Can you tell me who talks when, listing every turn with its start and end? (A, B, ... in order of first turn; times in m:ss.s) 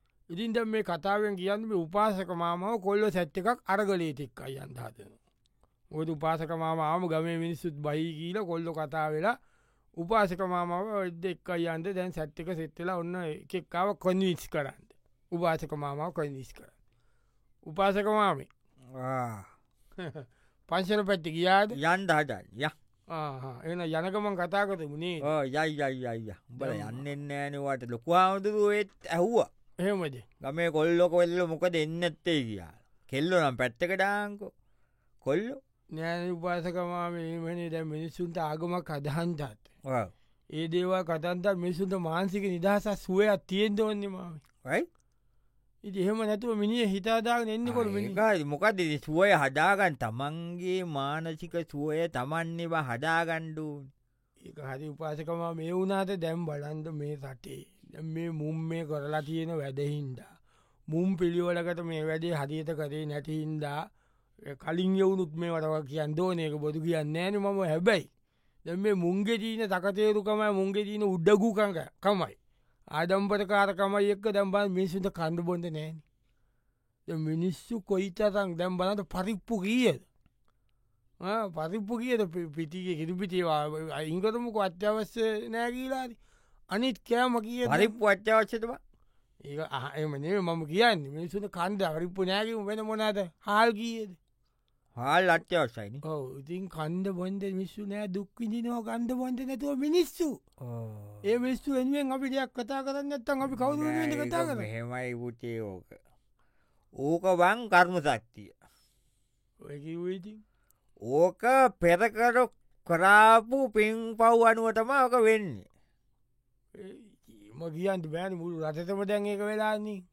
0:00.3-0:05.2 A
0:05.9-0:09.4 A
0:10.0-0:16.7 A
0:17.7-0:18.5 A
0:19.0-0:19.5 B
0:20.0-0:21.8 A
0:21.7-0:22.7 B
0:23.1-0:25.3 A
0:25.2-0:29.5 B
0:26.6-0:27.0 A
0:29.8-0:30.2 A
0:30.4-0:34.5 B
0:35.2-0:35.6 B
0:35.9-0:39.7 A
0:39.8-0:40.1 B
0:40.5-0:44.4 A
0:45.8-0:48.2 A
0:47.7-0:53.9 B
0:54.4-1:00.3 A
1:00.9-1:03.9 A
1:04.5-1:08.1 A
1:08.6-1:12.4 A
1:12.9-1:16.0 A
1:17.1-1:20.0 A
1:21.2-1:26.2 A
1:26.7-1:28.0 A
1:27.7-1:28.8 B
1:29.5-1:34.2 A
1:35.0-1:36.0 B
1:36.0-1:40.4 A
1:40.6-1:41.2 B
1:41.2-1:44.7 A
1:43.5-1:46.0 B
1:47.0-1:48.5 B
1:49.6-1:50.4 A
1:51.0-1:55.7 B
1:56.8-2:00.0 A